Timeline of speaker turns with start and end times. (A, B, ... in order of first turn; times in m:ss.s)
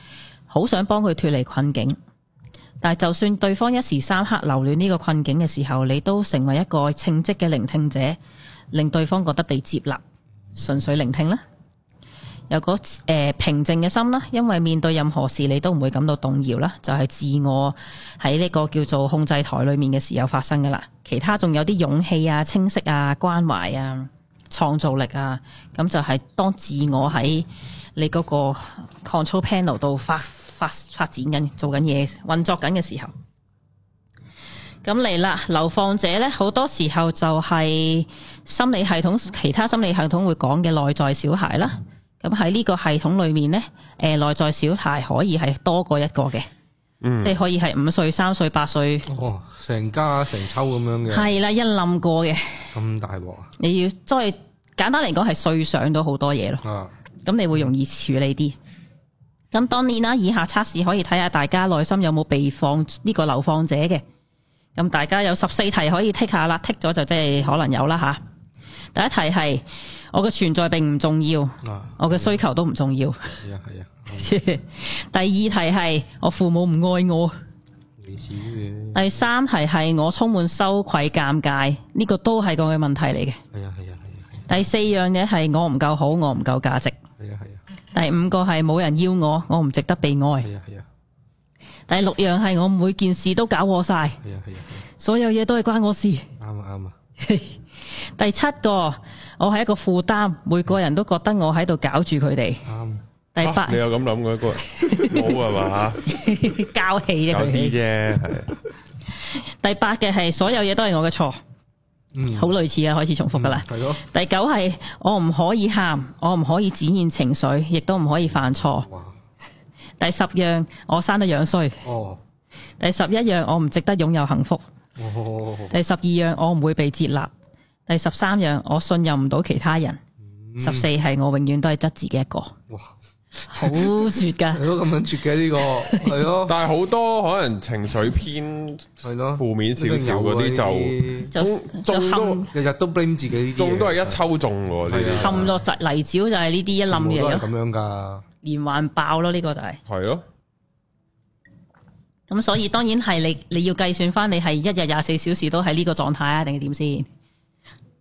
0:00.5-0:02.0 A
0:02.8-0:08.2 A
0:08.7-0:10.0 A
0:10.5-0:11.4 A
0:12.5-0:33.1 A
0:34.8-0:46.4 A
0:47.0-0:47.4 B
0:47.2-0:49.1 A
0:49.1-0:51.3 C
0:51.1-0:52.6 A
0:52.7-0:53.5 C
0:53.6-0:56.6 A
0:56.6-0:56.9 C
0:57.2-0:58.6 A
0:59.5-1:04.0 A
1:04.7-1:08.2 A
1:08.9-1:13.4 A
1:11.6-1:12.4 C
1:13.4-1:14.3 C
1:14.1-1:17.3 A
1:18.0-1:19.2 C
1:18.9-1:23.4 A
1:23.5-1:24.5 C
1:24.5-1:27.0 A
1:27.2-1:27.6 C
1:27.9-1:30.5 A
1:30.4-1:30.8 C
1:31.9-1:34.2 A
1:34.2-1:34.8 C
1:35.0-1:36.3 A
1:36.4-1:36.9 C
1:37.2-1:42.6 A
1:42.6-1:43.0 C
1:43.3-1:43.8 A
1:43.4-1:46.0 B
1:44.6-1:45.4 A
1:46.0-1:47.8 A
1:47.3-1:48.5 B
1:49.2-1:51.4 A
1:52.1-1:52.6 C
1:52.3-1:58.9 A
1:53.3-1:54.0 C
1:58.4-1:59.2 C
2:00.0-2:01.8 A
2:01.8-2:02.2 C
2:02.8-2:04.6 A
2:05.0-2:05.8 C
2:05.7-2:07.3 A
2:07.9-2:10.0 A
2:10.2-2:10.9 C
2:10.6-2:12.5 A
2:13.5-2:14.6 A
2:13.5-2:16.6 C
2:15.8-2:16.1 A
2:16.4-2:22.5 B
2:19.0-2:21.3 C
2:21.3-2:22.5 A
2:22.5-2:24.2 C
2:23.6-2:25.5 B
2:24.8-2:25.6 C
2:25.2-2:27.5 A
2:26.9-2:28.2 C
2:28.4-2:29.8 A
2:29.9-2:30.2 B
2:32.3-2:37.1 A